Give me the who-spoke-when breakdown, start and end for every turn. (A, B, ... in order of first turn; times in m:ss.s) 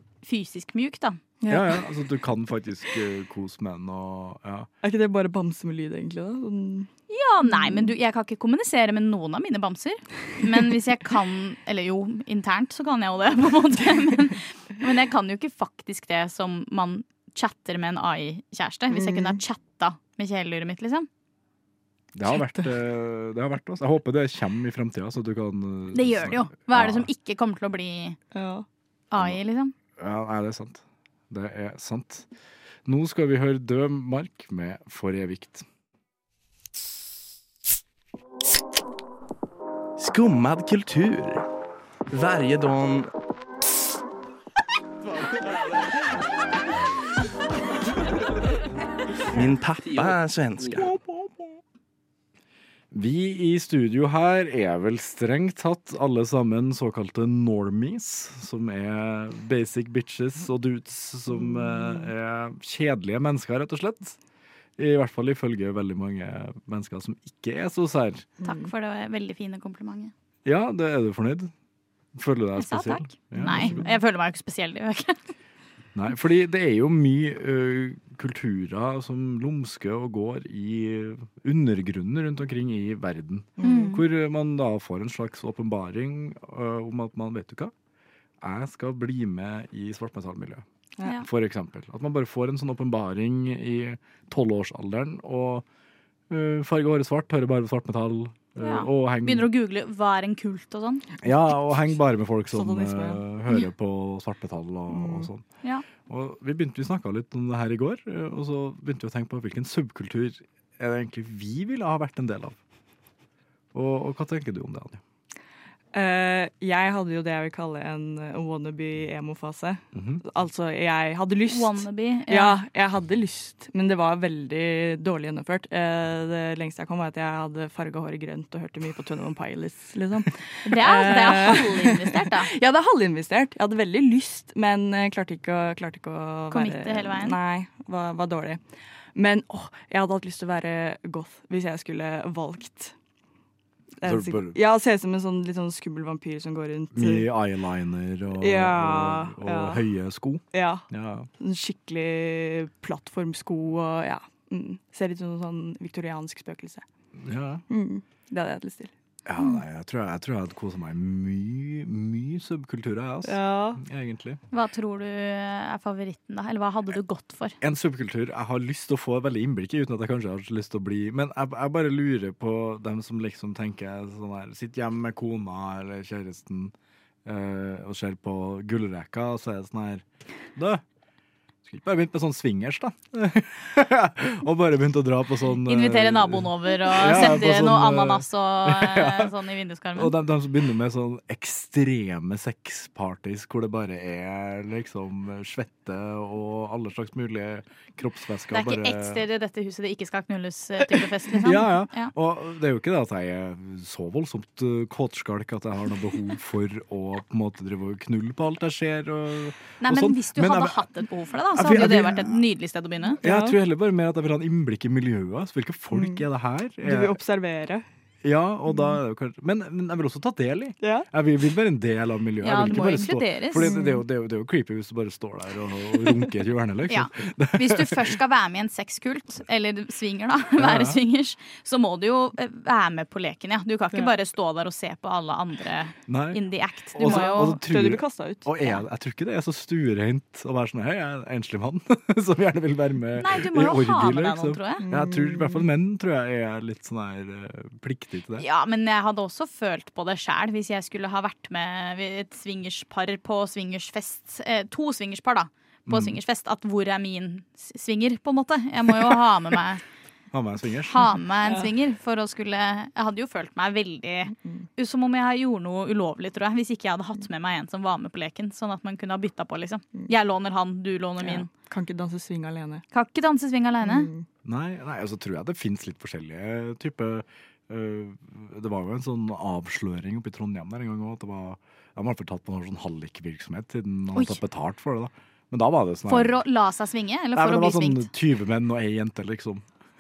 0:00.2-0:01.2 A
0:01.4-0:01.8 B
0:01.5-0:04.7 C
0:04.8-0:06.9 B
0:07.1-0:21.1 A
0:07.5-0:07.9 B
0:18.9-0:19.4 B
0:22.1-0:27.1 C
0:25.9-0:28.2 A
0:28.3-0:28.6 B
0:29.1-0:29.7 A
0:30.0-0:32.3 C
0:32.8-0:35.6 C
0:40.0-0:41.4 D
0:42.1-0:43.1 D
0:49.3-0:50.9 D
0:52.9-1:04.2 C
1:01.4-1:02.1 B
1:04.8-1:08.3 C
1:08.4-1:08.7 B
1:08.4-1:10.1 A
1:10.4-1:11.5 C
1:12.1-1:13.8 C
1:12.6-1:15.2 A
1:13.4-1:13.9 B
1:15.9-1:27.7 C
1:23.6-1:23.9 B
1:23.6-1:24.0 A
1:28.4-1:30.6 C
1:31.2-1:35.6 C
1:36.3-1:39.5 C
1:38.6-1:41.0 A
1:41.2-1:45.4 C
1:42.5-1:43.2 B
1:44.9-1:45.3 B
1:46.0-1:52.6 C
1:53.7-1:55.0 C
1:55.9-2:18.6 B
1:59.9-2:00.2 C
2:01.5-2:02.6 A
2:10.6-2:12.5 A
2:16.5-2:17.4 A
2:19.1-2:22.9 B
2:24.0-2:27.3 B
2:24.0-2:24.6 C
2:26.9-2:31.3 C
2:28.4-2:29.8 B
2:30.5-2:30.9 B
2:31.4-2:36.8 B
2:37.2-2:37.6 C
2:37.7-2:38.9 B
2:39.2-2:44.4 C
2:43.2-2:43.8 B
2:44.5-2:47.6 A
2:47.6-2:56.7 C
2:57.2-3:00.0 C
3:00.5-3:00.8 C
3:01.6-3:09.3 C
3:05.6-3:10.1 A
3:09.9-3:19.2 C
3:18.5-3:22.1 A
3:21.4-3:30.8 C
3:29.8-3:33.2 A
3:31.5-3:32.4 C
3:33.2-3:33.6 B
3:33.2-3:37.2 C
3:35.9-3:36.2 B
3:36.8-3:37.8 B
3:38.2-3:48.2 C
3:40.8-3:41.1 B
3:42.4-3:43.7 A
3:43.6-3:44.0 B
3:46.9-3:57.6 A
3:50.6-3:51.0 C
3:56.1-4:08.4 C
3:57.0-3:58.5 B
4:03.2-4:04.8 A
4:04.8-4:05.6 B
4:08.4-4:19.8 A
4:15.9-4:16.2 C
4:20.3-4:21.1 C
4:20.9-4:31.5 A
4:21.4-4:21.7 B
4:24.4-4:24.6 B
4:31.2-4:32.8 B
4:32.9-4:34.1 A
4:33.8-4:34.2 B
4:34.4-4:46.4 C
4:44.1-4:44.4 A
4:46.1-4:48.1 A
4:47.3-4:49.6 C